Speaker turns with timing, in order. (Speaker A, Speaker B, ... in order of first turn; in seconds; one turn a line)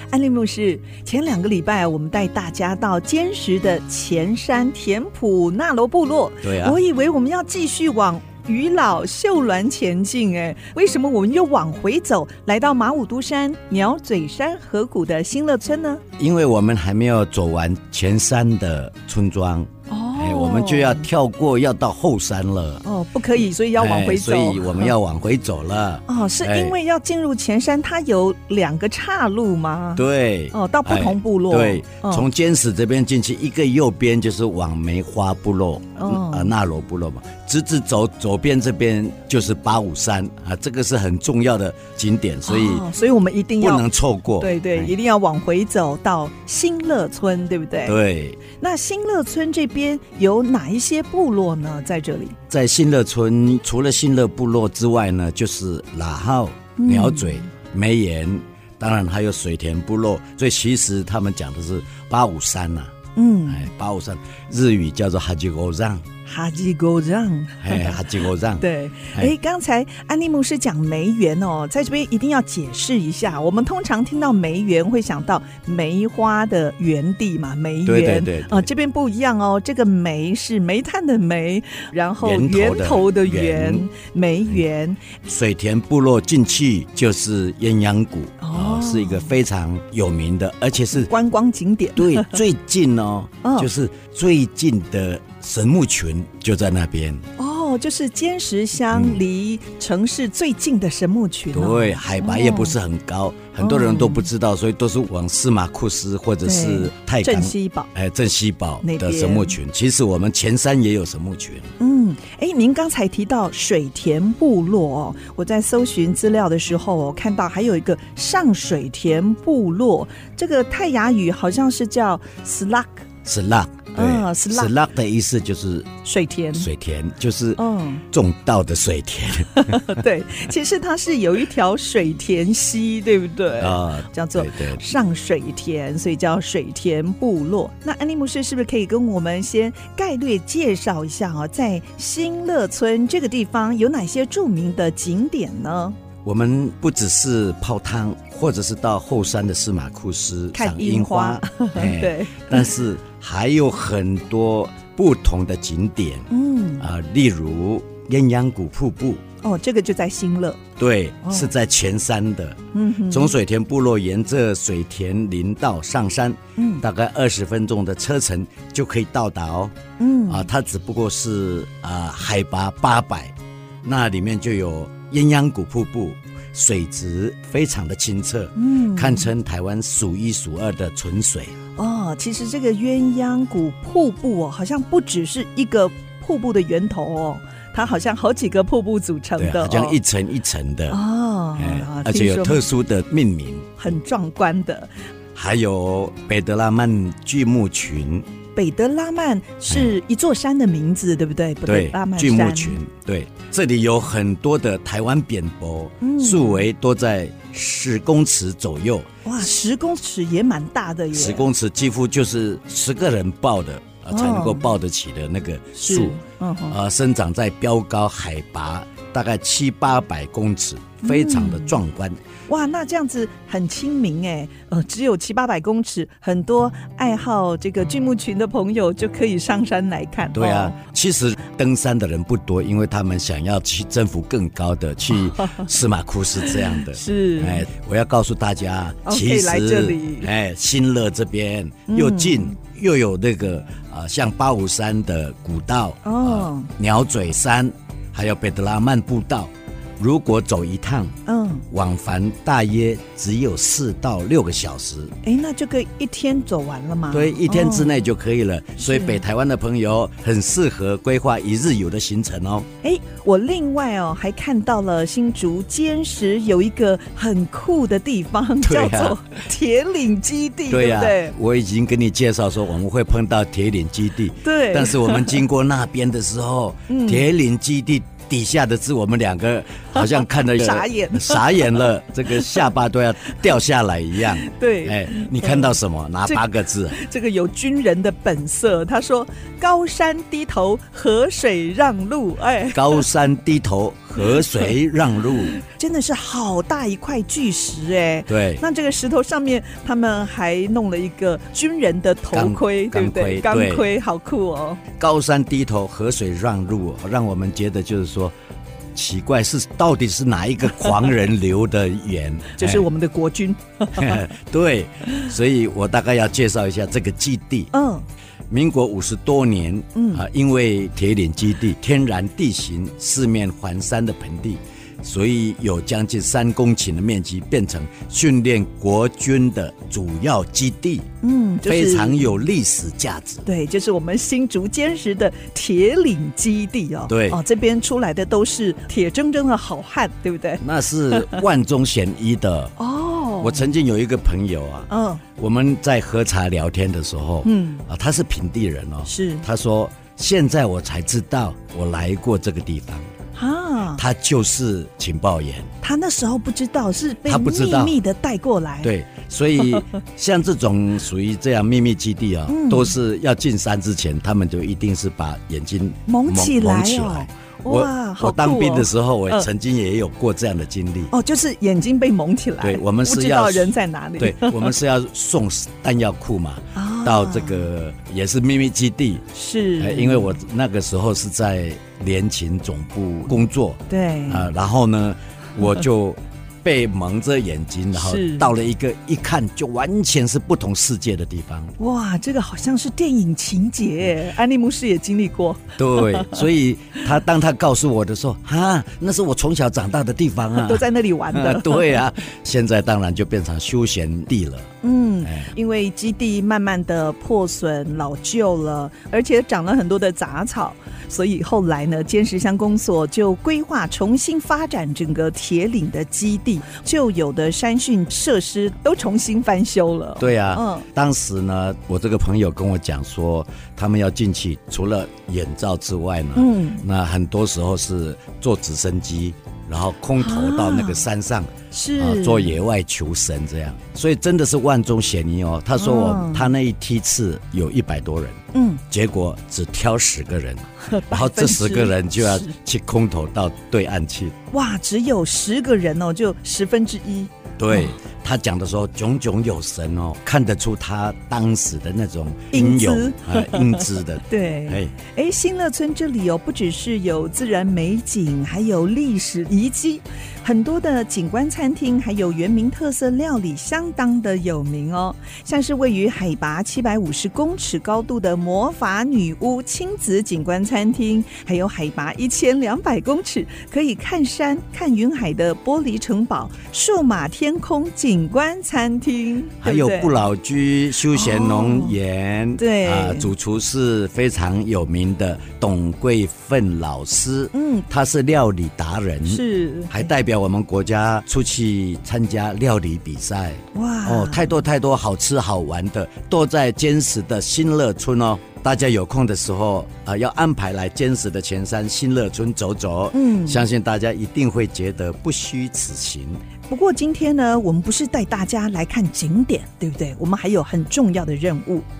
Speaker A: 0.1-16.0
Speaker B: 6.4-6.8
Speaker B: 16.2-22.9
Speaker A: 19.9-21.1
Speaker A: 22.9-24.9
Speaker B: 23.8-26.8
Speaker A: 26.1-32.3
Speaker B: 30.0-42.9
Speaker A: 36.0-36.5
Speaker A: 42.5-43.9
Speaker B: 43.6-44.9
Speaker A: 44.4-48.0
Speaker B: 47.8-48.4
Speaker A: 48.6-52.4
Speaker B: 52.5-62.9
Speaker A: 56.8-57.4
Speaker A: 63.2-63.7
Speaker B: 63.5-66.0
Speaker A: 66.3-68.0
Speaker B: 67.6-69.3
Speaker A: 68.6-85.1
Speaker B: 77.8-78.7
Speaker B: 82.2-83.9
Speaker B: 85.2-91.1
Speaker A: 88.4-89.4
Speaker A: 91.1-92.4
Speaker B: 92.0-97.3
Speaker A: 93.4-93.7
Speaker A: 97.4-102.8
Speaker B: 98.9-99.2
Speaker B: 101.5-111.7
Speaker A: 103.6-104.3
Speaker A: 106.4-107.9
Speaker A: 108.8-109.6
Speaker A: 111.8-123.0
Speaker B: 123.2-125.9
Speaker A: 123.9-124.7
Speaker A: 126.0-126.7
Speaker B: 126.5-130.0
Speaker A: 127.6-128.0
Speaker A: 129.6-146.0
Speaker B: 133.6-134.8
Speaker B: 146.2-159.2
Speaker A: 150.5-152.7
Speaker A: 156.3-156.9
Speaker A: 159.4-160.6
Speaker B: 160.8-169.7
Speaker A: 161.2-161.5
Speaker A: 162.7-163.3
Speaker A: 166.6-166.8
Speaker A: 170.0-170.5
Speaker B: 170.3-181.6
Speaker A: 178.6-179.3
Speaker A: 181.8-190.0
Speaker B: 189.4-191.0
Speaker A: 190.9-192.7
Speaker B: 191.6-193.7
Speaker A: 193.8-194.9
Speaker B: 195.3-198.3
Speaker A: 198.6-202.8
Speaker B: 201.7-209.1
Speaker A: 206.0-206.6
Speaker A: 209.3-211.5
Speaker B: 211.1-222.2
Speaker A: 214.1-214.7
Speaker A: 215.8-216.8
Speaker A: 221.0-221.8
Speaker A: 222.5-230.8
Speaker B: 230.3-251.2
Speaker A: 235.4-235.7
Speaker A: 236.5-237.7
Speaker A: 239.1-240.3
Speaker A: 241.9-242.5
Speaker A: 246.0-246.7
Speaker A: 251.3-251.7
Speaker B: 251.7-255.1
Speaker A: 255.2-257.9
Speaker B: 257.1-262.7
Speaker A: 258.8-259.2
Speaker A: 262.8-271.3
Speaker B: 268.6-269.2
Speaker B: 270.7-287.0
Speaker A: 274.4-275.4
Speaker A: 276.9-277.3
Speaker A: 279.9-281.9
Speaker A: 284.4-293.0
Speaker B: 292.7-295.6
Speaker A: 295.6-304.8
Speaker B: 298.3-298.6
Speaker B: 302.3-303.9
Speaker B: 305.0-308.4
Speaker B: 308.9-312.9
Speaker A: 312.6-314.2
Speaker B: 313.9-317.7
Speaker A: 317.7-318.1
Speaker B: 318.5-331.1
Speaker A: 319.9-320.2
Speaker A: 331.2-332.3
Speaker B: 331.6-333.5
Speaker A: 333.5-340.6
Speaker B: 337.1-337.4
Speaker B: 340.6-342.8
Speaker A: 341.1-341.4
Speaker A: 342.8-343.7
Speaker B: 343.4-353.1
Speaker A: 344.9-345.2
Speaker A: 347.4-347.8
Speaker A: 349.1-349.4
Speaker A: 353.4-354.0
Speaker B: 354.0-355.7
Speaker A: 355.8-358.9
Speaker B: 357.3-358.0
Speaker B: 358.8-371.1
Speaker A: 362.5-362.9
Speaker A: 366.1-369.5
Speaker A: 371.1-374.7
Speaker B: 372.6-379.2
Speaker A: 376.8-377.6
Speaker A: 379.3-380.4
Speaker B: 379.8-391.7
Speaker A: 383.9-384.5
Speaker A: 387.9-388.5
Speaker A: 391.8-396.4
Speaker B: 395.8-405.5
Speaker A: 400.5-402.0
Speaker A: 404.8-420.9
Speaker B: 420.2-444.4
Speaker A: 426.4-426.8
Speaker A: 430.2-431.0
Speaker A: 431.7-432.6
Speaker A: 435.8-436.5
Speaker A: 438.5-438.8
Speaker A: 440.9-442.5
Speaker A: 444.5-448.0
Speaker B: 447.6-454.9
Speaker A: 452.5-480.1
Speaker B: 479.6-506.4
Speaker A: 481.1-482.0
Speaker A: 482.6-483.3
Speaker A: 487.5-487.9
Speaker A: 489.2-490.1
Speaker A: 493.7-494.6
Speaker A: 503.1-503.7
Speaker A: 506.7-511.9